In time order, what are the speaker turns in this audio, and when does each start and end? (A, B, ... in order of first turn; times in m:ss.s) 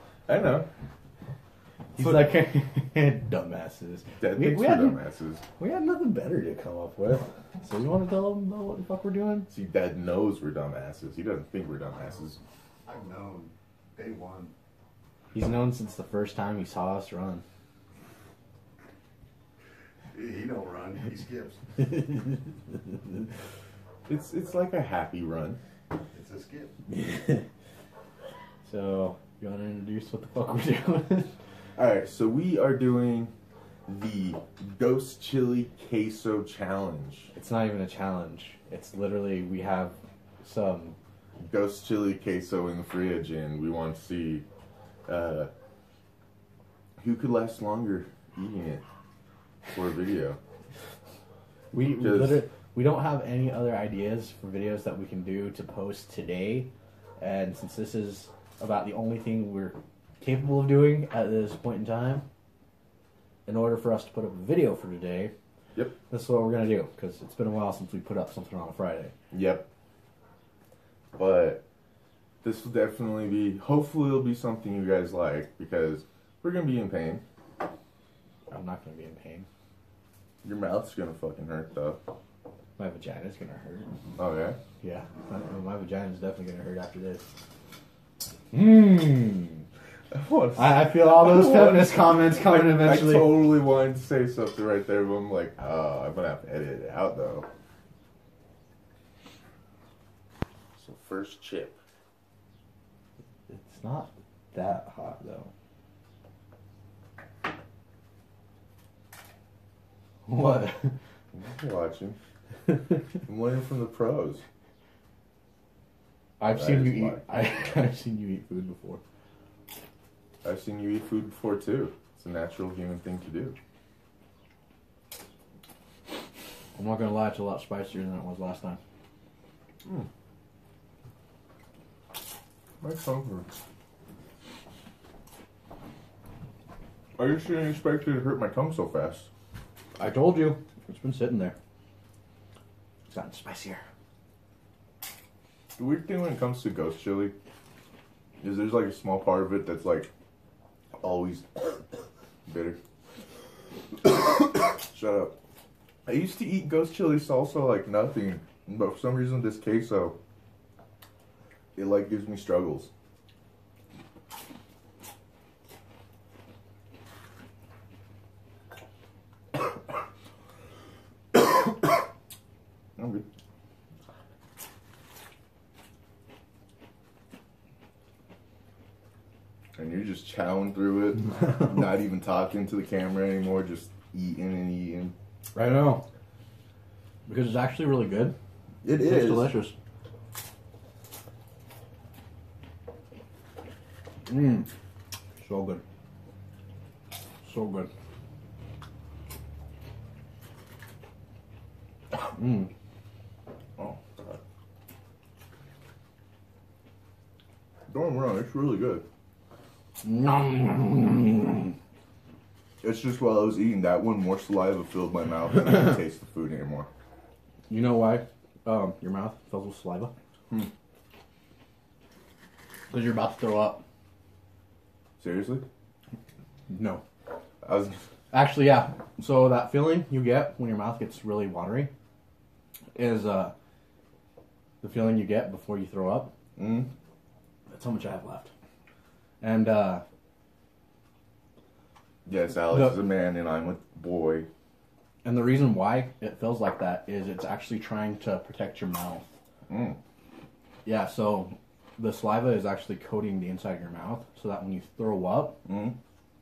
0:00.3-0:00.7 A
0:01.9-0:05.0 B
0:02.0-0:02.3 A
0:04.2-0:05.4 A
0:05.6-0:09.5 B
0:09.5-0:12.4 A
0:12.8-0:14.5 C
0:15.3-0:17.4 B
0:20.1-0:21.8 C
0:24.1-0:25.6 A
0:26.1-0:26.7 C
0:26.9-0:27.5 B
0:28.6-0:31.3 B
0:31.8-0:33.3 A
0:33.9-0:37.3 A
0:37.3-0:41.0 B
0:41.4-0:44.4 A
0:45.0-0:45.5 A
0:47.0-0:48.8 A
0:49.7-0:50.4 A
0:51.7-1:02.2 B
0:51.9-0:52.4 A
1:03.4-1:05.3 B
1:06.1-1:09.1 B
1:09.3-1:09.6 A
1:11.1-1:11.6 A
1:12.4-1:17.2 A
1:18.5-1:19.5 B
1:20.4-1:22.0 A
1:22.8-1:23.9 B
1:24.2-1:24.6 A
1:24.8-1:27.3 B
1:28.5-1:29.6 B
1:30.1-1:37.4 A
1:30.5-1:33.5 B
1:40.8-1:41.8 A
1:43.5-1:45.5 B
1:50.3-1:50.9 B
1:51.3-1:52.2 A
1:53.2-1:54.4 A
1:56.4-1:59.0 B
1:56.4-1:57.8 A
2:00.4-2:03.6 A
2:06.7-2:08.8 B
2:12.8-2:13.5 A
2:17.2-2:19.3 A
2:20.0-2:21.5 B
2:23.1-2:23.8 B
2:25.8-2:27.3 A
2:28.4-2:30.1 A
2:31.0-2:31.8 A
2:32.4-2:32.8 A
2:33.9-2:35.4 A
2:36.0-2:40.2 A
2:41.8-2:42.9 A
2:53.0-2:53.2 A
2:59.8-3:05.1 A
3:05.5-3:06.0 B
3:07.2-3:08.3 B
3:08.8-3:09.6 A
3:08.9-3:09.7 B
3:14.3-3:14.7 B
3:15.4-3:15.8 B
3:17.4-3:17.9 B
3:22.1-3:22.7 B
3:23.8-3:24.4 A
3:27.9-3:29.0 A
3:30.0-3:31.7 B
3:32.8-3:36.9 A
3:37.7-3:40.1 B
3:42.9-3:43.8 B
3:45.2-3:45.6 A
3:46.7-3:47.0 B
3:47.6-3:48.0 A
3:48.3-3:51.9 B
3:52.9-3:53.5 B
3:54.8-3:56.3 B
3:56.6-3:56.9 A
3:57.7-3:58.5 B
3:59.4-4:00.0 B
4:02.2-4:04.5 A
4:02.7-4:03.0 B
4:05.2-4:09.3 B
4:09.7-4:10.0 A
4:10.8-4:15.6 B
4:15.6-4:16.0 A